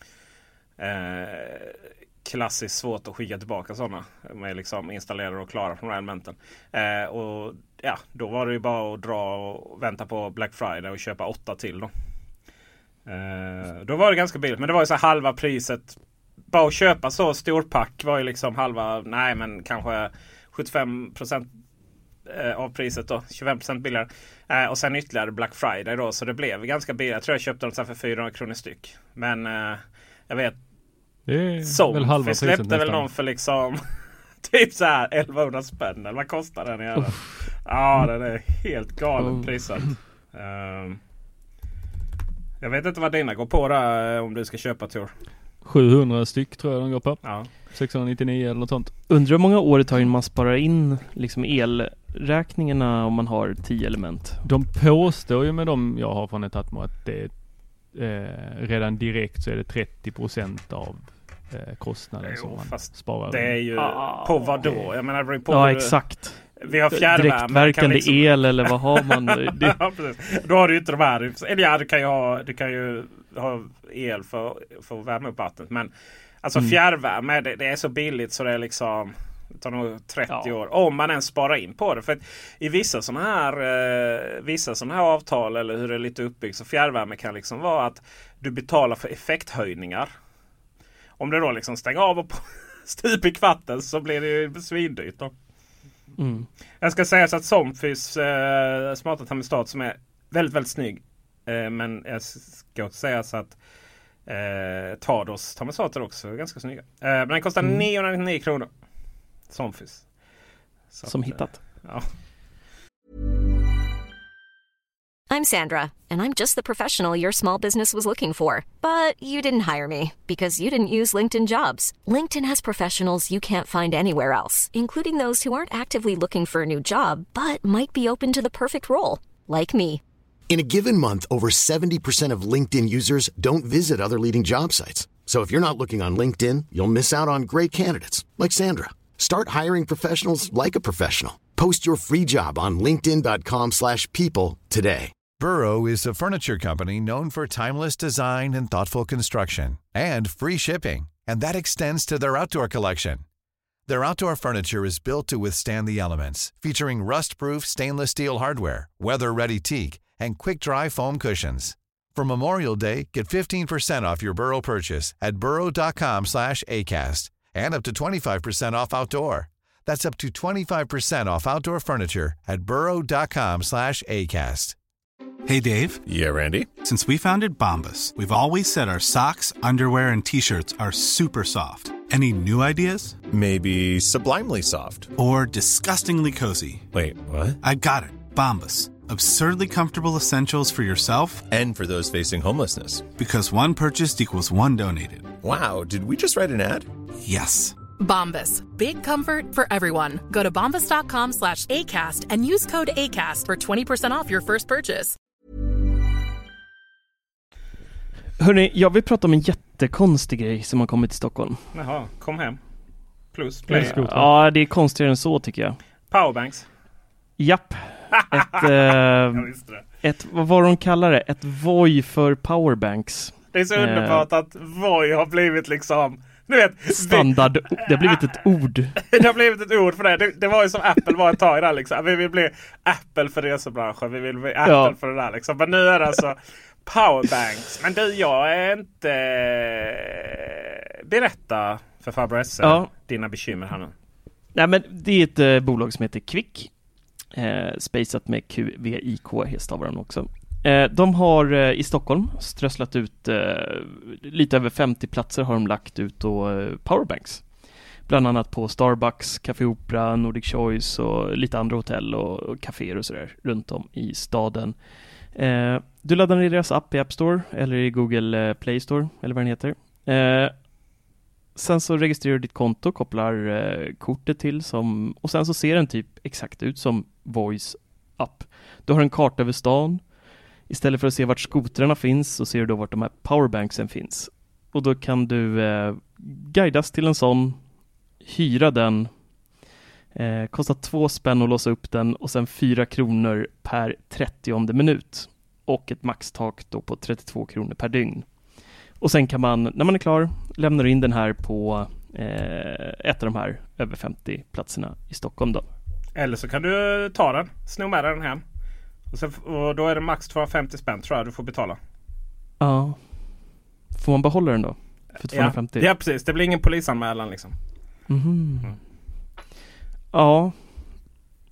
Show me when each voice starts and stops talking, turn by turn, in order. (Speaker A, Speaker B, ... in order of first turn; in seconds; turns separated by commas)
Speaker A: 0.8-11.9, Speaker A: 13.1-16.0, Speaker A: 16.5-21.5, Speaker A: 22.3-30.6, Speaker B: 31.3-33.1, Speaker A: 31.6-33.8, Speaker A: 34.4-41.0, Speaker C: 39.2-39.5, Speaker A: 42.6-45.1, Speaker B: 45.6-48.9, Speaker A: 47.2-47.5, Speaker C: 49.1-54.4, Speaker B: 54.5-57.4, Speaker B: 57.9-63.6, Speaker A: 62.2-66.1, Speaker C: 63.8-64.9, Speaker C: 65.5-69.8, Speaker A: 66.6-75.9, Speaker A: 76.4-90.1, Speaker A: 91.2-95.3, Speaker C: 96.2-96.5, Speaker A: 96.8-103.6, Speaker A: 104.3-108.7, Speaker A: 109.5-110.1, Speaker A: 110.9-112.1, Speaker C: 111.1-111.6, Speaker D: 115.3-130.0, Speaker E: 130.5-145.1, Speaker F: 145.4-153.2, Speaker F: 153.9-174.8, Speaker G: 175.5-176.0, Speaker H: 176.1-176.7, Speaker G: 176.8-183.2, Speaker H: 183.3-185.1, Speaker G: 185.2-186.9, Speaker H: 186.9-187.6, Speaker G: 187.6-191.5, Speaker H: 191.5-193.1, Speaker G: 193.2-195.3, Speaker H: 195.4-196.9, Speaker G: 197.2-197.8, Speaker I: 198.0-205.2, Speaker C: 208.4-211.6, Speaker A: 211.7-212.6, Speaker A: 213.3-214.0, Speaker B: 213.7-214.3, Speaker C: 213.7-215.8, Speaker A: 216.1-216.7, Speaker C: 217.4-219.5, Speaker A: 219.3-219.8, Speaker C: 220.0-224.3, Speaker A: 223.5-227.4, Speaker C: 226.9-229.0, Speaker A: 228.1-228.4, Speaker A: 229.0-243.9, Speaker C: 234.6-234.9, Speaker C: 242.6-242.9, Speaker C: 244.6-246.7, Speaker C: 247.3-270.7, Speaker C: 271.6-289.3, Speaker C: 290.1-298.3, Speaker C: 299.0-305.7, Speaker A: 306.2-308.4, Speaker A: 309.1-311.8, Speaker C: 312.6-313.4, Speaker C: 313.9-315.9, Speaker A: 315.3-317.6, Speaker C: 318.1-318.8, Speaker C: 320.1-321.0